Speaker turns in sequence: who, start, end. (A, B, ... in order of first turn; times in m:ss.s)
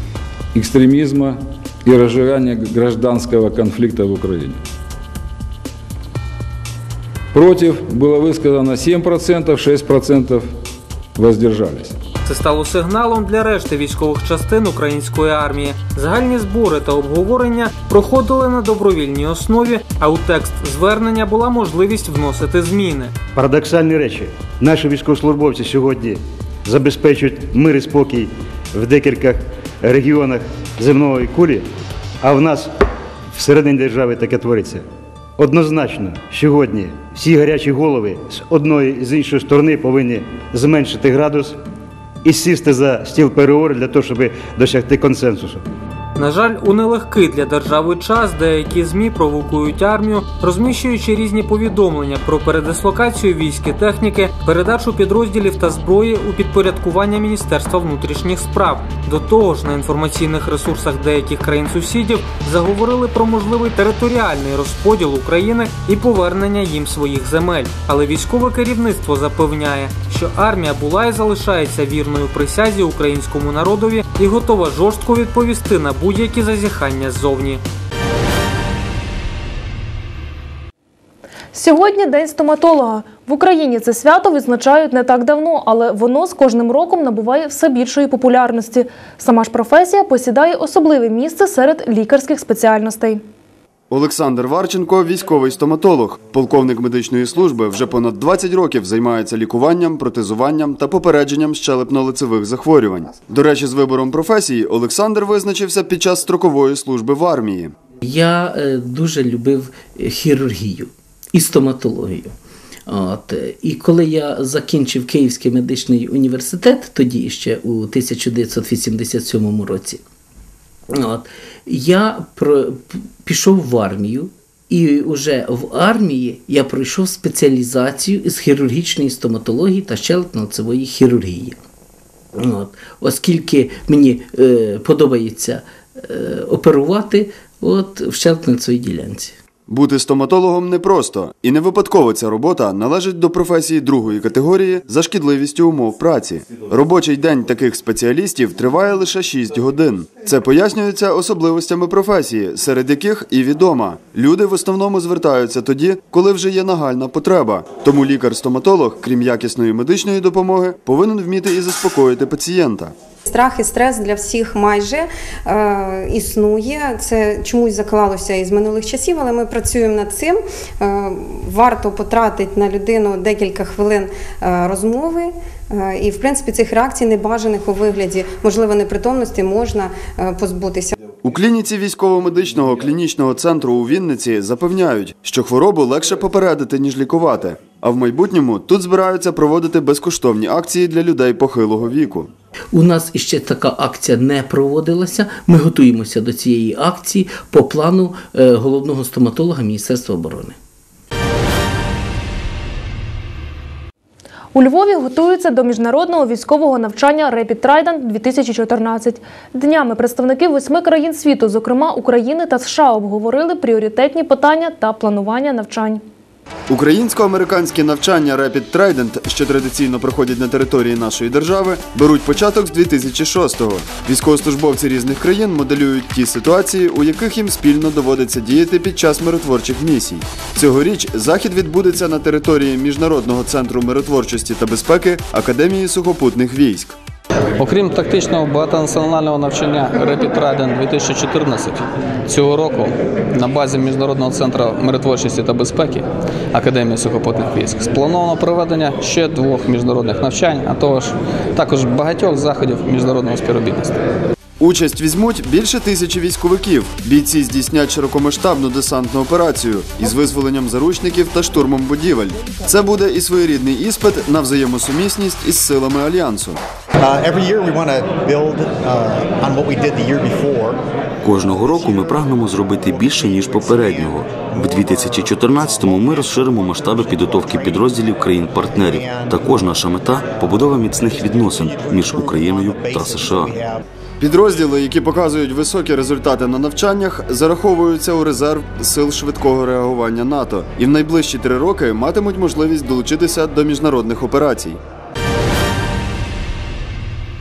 0:00.5-0:04.6 A
0:07.3-0:10.5 A
0:11.2-0:12.0 A
0:12.2-0:23.1 B
0:23.4-0:31.7 C
0:32.2-0:32.7 C
0:33.3-0:34.8 C
0:35.4-0:41.6 C
0:42.2-0:45.6 C
0:46.2-1:17.6 B
1:21.5-1:33.2 D
1:33.9-1:47.7 E
1:48.0-1:52.3 F
1:52.9-2:00.0 F
2:00.9-2:11.6 F
2:12.4-2:19.4 F
2:19.7-2:42.9 E
2:43.3-3:01.0 G
3:01.2-3:12.3 E
3:12.7-3:20.6 F
3:24.5-3:36.0 D
3:36.7-3:57.0 E
3:57.6-4:14.0 H
4:14.6-4:26.6 E
4:27.0-4:30.8 I
4:31.2-4:43.6 J
4:33.4-4:35.2 I
4:37.4-4:37.8 I
4:38.8-4:39.4 I
4:41.4-4:43.8 I
4:44.2-4:54.8 E